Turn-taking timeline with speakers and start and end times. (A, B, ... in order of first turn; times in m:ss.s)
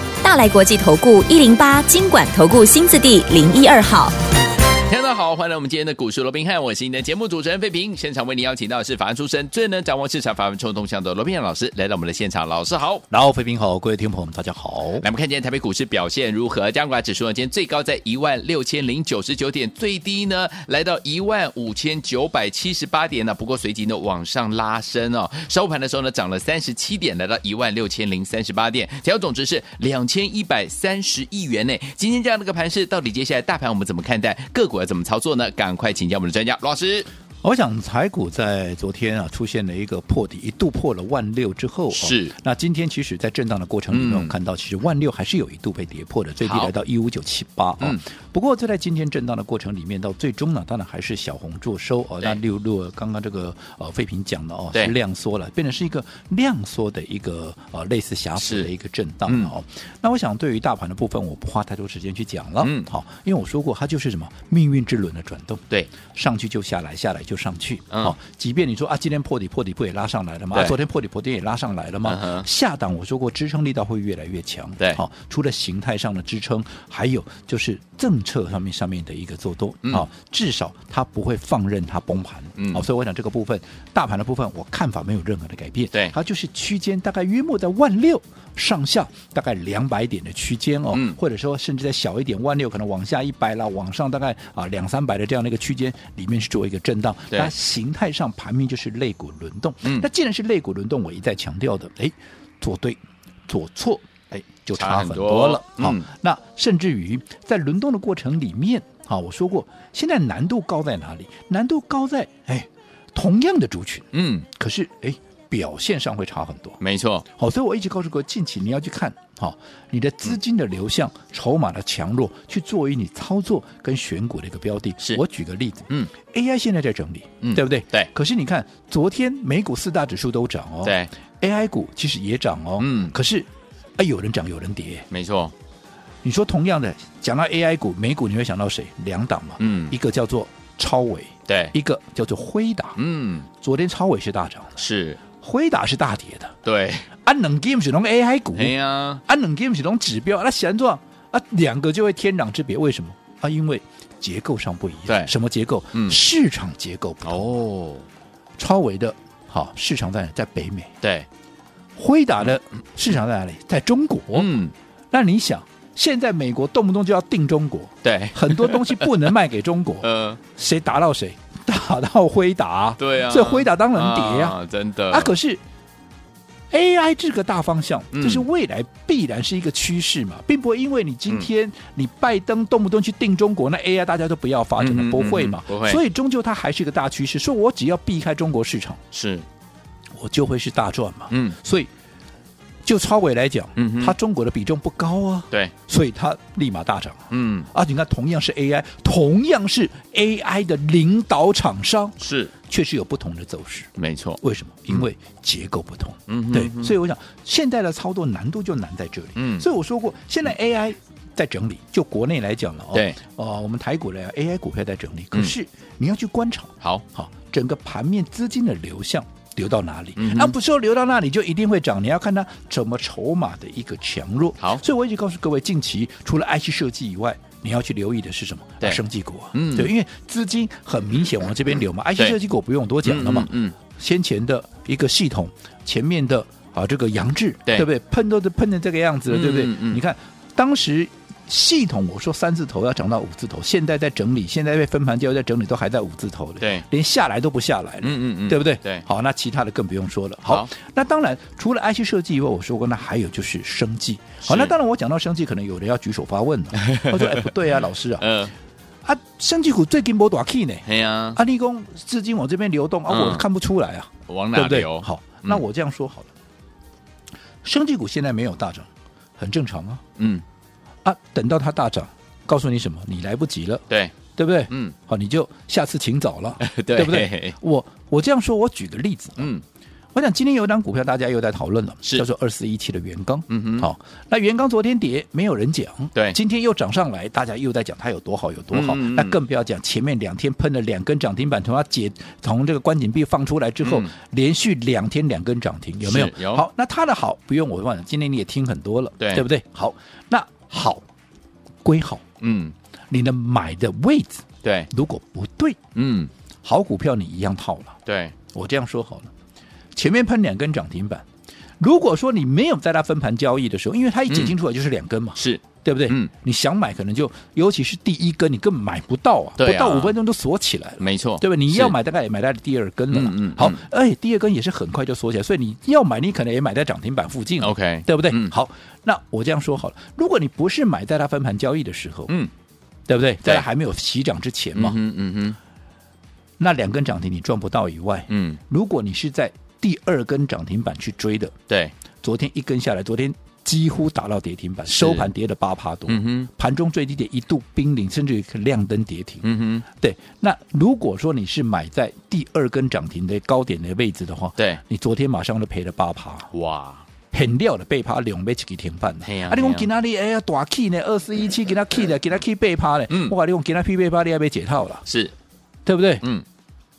0:00.2-0:04.1 A
0:04.8-0:13.0 B
0:13.1-0:15.0 C
0:15.0-0:37.1 B
0:37.4-1:56.8 C
0:41.9-0:42.3 B
0:43.9-0:44.3 B
0:46.4-0:46.7 B
0:58.4-0:58.7 B
0:59.2-0:59.5 B
1:02.6-1:02.9 B
1:12.0-1:12.5 B
1:22.6-1:22.8 B
1:30.9-1:31.2 B
1:44.3-1:46.1 B
1:54.1-1:54.5 B
1:56.8-1:57.2 B
1:57.3-2:15.1 C
2:07.4-2:08.1 B
2:10.8-2:11.1 B
2:12.8-2:13.1 B
2:15.1-2:15.5 B
2:16.2-2:23.0 C
2:19.6-2:19.9 B
2:21.5-2:21.7 B
2:23.0-2:23.5 B
2:23.6-2:24.8 C
2:24.8-2:25.2 B
2:25.4-2:26.6 C
2:26.6-2:27.1 B
2:27.2-2:37.4 C
2:28.5-2:29.2 B
2:35.1-2:35.3 B
2:35.9-2:36.2 B
2:37.2-2:38.0 B
2:38.6-2:40.9 C
2:41.0-2:41.3 B
2:42.0-2:44.5 C
2:44.3-2:44.7 B
2:45.1-2:54.6 C
2:48.0-2:49.3 B
2:50.0-2:50.4 B
2:53.0-2:55.3 B
2:55.1-2:55.6 C
2:56.7-3:09.0 C
2:58.1-2:58.4 B
3:04.8-3:06.0 B
3:09.1-3:09.4 B
3:10.2-3:11.9 C
3:11.3-3:11.6 B
3:12.8-3:23.9 C
3:13.8-3:14.1 B
3:17.3-3:17.7 B
3:22.2-3:22.5 B
3:24.0-3:25.0 B
3:24.4-4:18.3 C
3:26.3-3:26.9 B
3:29.4-3:29.7 B
3:32.9-3:33.2 B
3:40.2-3:40.5 B
3:49.5-3:49.9 B
3:53.0-3:53.7 B
3:59.3-4:00.0 B
4:06.6-4:06.8 B
4:08.0-4:09.0 B
4:14.4-4:14.7 B
4:16.7-4:18.5 B
4:19.0-4:26.3 C
4:20.8-4:21.4 B
4:23.1-4:23.4 B
4:24.3-4:25.6 B
4:27.6-4:30.0 C
4:30.2-4:30.4 B
4:31.0-4:39.5 C
4:33.9-4:34.1 B
4:34.7-4:34.9 B
4:36.6-4:37.6 B
4:39.4-4:39.6 B
4:40.1-5:01.0 C
4:43.5-4:43.9 B
4:48.7-4:49.4 B
4:53.8-4:54.1 B
4:56.0-4:56.6 B
4:59.2-4:59.4 B
5:01.8-5:02.2 C
5:02.4-5:02.7 B
5:03.1-5:05.8 C
5:04.6-5:04.9 B
5:05.9-5:06.3 B
5:06.6-5:08.0 C
5:08.0-5:08.3 B
5:08.5-5:09.3 C
5:10.0-5:11.2 C
5:11.8-5:32.3 C
5:14.3-5:14.5 B
5:15.4-5:16.3 B
5:19.6-5:20.1 B
5:21.0-5:21.9 B
5:23.1-5:23.8 B
5:27.6-5:28.5 B
5:33.1-5:35.0 C
5:34.7-5:35.6 B
5:36.6-5:41.5 C
5:38.3-5:38.6 B
5:41.7-5:41.9 B
5:42.2-5:56.5 C
5:44.9-5:45.3 B
5:46.1-5:46.5 B
5:49.4-5:49.8 B
5:56.5-5:57.0 B
5:57.3-6:05.0 C
5:59.2-5:59.9 B
6:05.0-6:05.3 B
6:05.8-6:06.2 C